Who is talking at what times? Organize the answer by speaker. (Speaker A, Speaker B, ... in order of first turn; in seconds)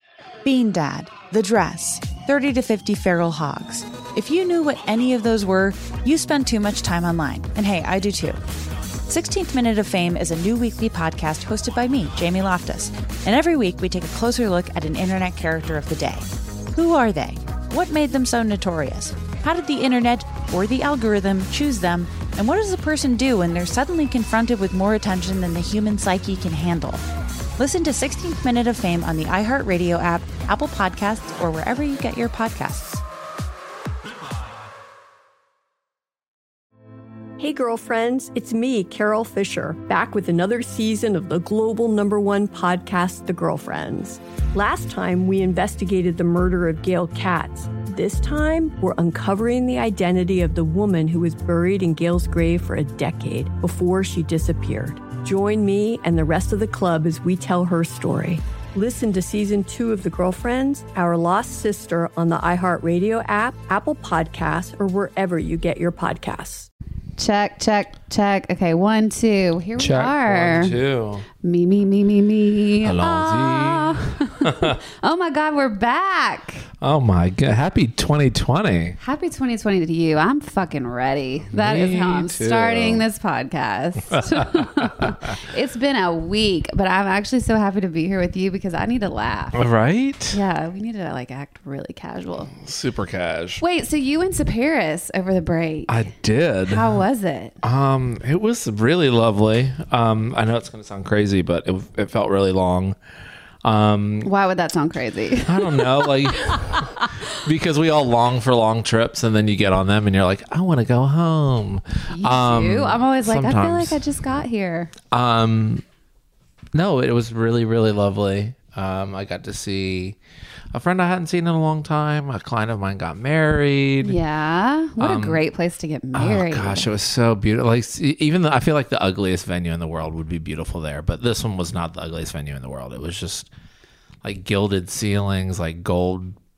Speaker A: 0.4-8.4, 9.1-27.0, 27.6-33.0
Speaker B: 37.4-66.7
Speaker C: 67.2-70.7, 71.4-76.7, 79.0-89.6, 90.3-92.5, 93.6-96.1, 96.7-97.6, 104.2-107.3, 112.1-114.9, 124.0-126.9
Speaker D: 69.8-71.2, 72.8-74.7, 76.8-79.0, 81.5-83.0, 89.5-90.4, 92.5-93.6, 95.9-97.0, 97.6-103.0, 103.6-104.3, 105.5-114.2, 115.1-115.8, 116.7-120.2, 120.7-124.2, 125.0-125.4, 126.1-133.5, 134.2-136.4